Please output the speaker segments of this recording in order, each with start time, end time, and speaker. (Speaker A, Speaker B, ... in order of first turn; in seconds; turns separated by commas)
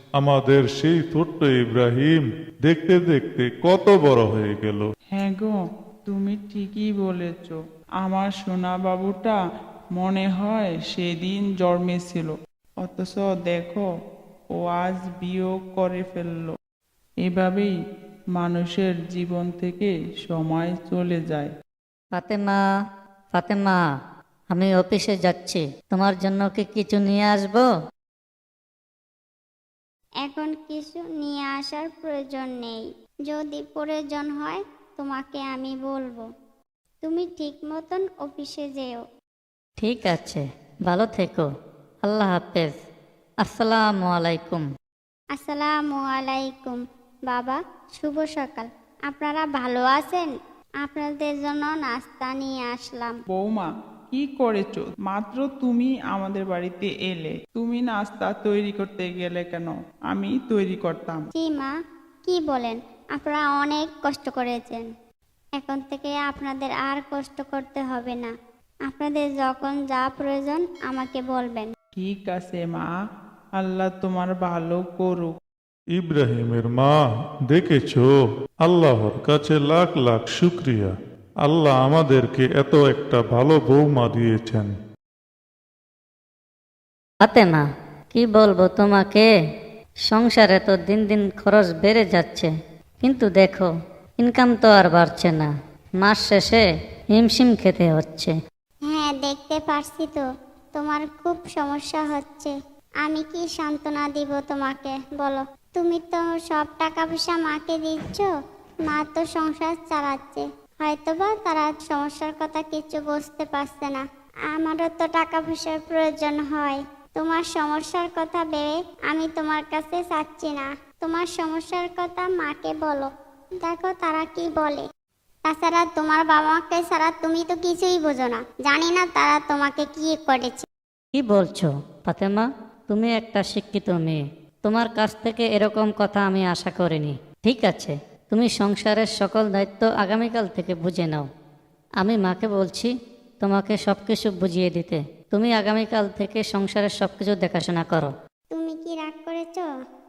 Speaker A: 0.2-4.9, Speaker B: 5.1-9.4, Speaker B: 9.9-13.9, Speaker B: 14.5-16.5, Speaker B: 17.2-17.7, Speaker B: 18.3-21.5, Speaker C: 22.1-22.6, Speaker C: 23.3-23.8, Speaker C: 24.5-27.7, Speaker D: 30.2-36.2, Speaker D: 37.0-39.0, Speaker C: 39.8-41.5, Speaker C: 42.0-42.7, Speaker C: 43.4-44.7, Speaker D: 45.3-50.3, Speaker D: 50.8-53.2, Speaker B: 53.3-61.2, Speaker D: 61.3-61.7, Speaker D: 62.2-64.9, Speaker D: 65.6-68.3, Speaker D: 68.8-71.7, Speaker B: 72.0-72.9, Speaker B: 73.6-75.3, Speaker A: 75.9-77.0, Speaker A: 77.5-78.1, Speaker A: 78.6-80.9, Speaker A: 81.4-84.7, Speaker C: 87.2-89.3, Speaker C: 90.1-92.5, Speaker C: 93.0-93.7, Speaker C: 94.2-95.5, Speaker C: 96.0-98.3, Speaker D: 98.9-100.2, Speaker D: 100.7-108.3, Speaker D: 108.8-123.1, Speaker D: 123.6-124.8, Speaker D: 125.5-130.7, Speaker C: 131.1-141.3, Speaker C: 142.0-148.1, Speaker D: 148.5-149.7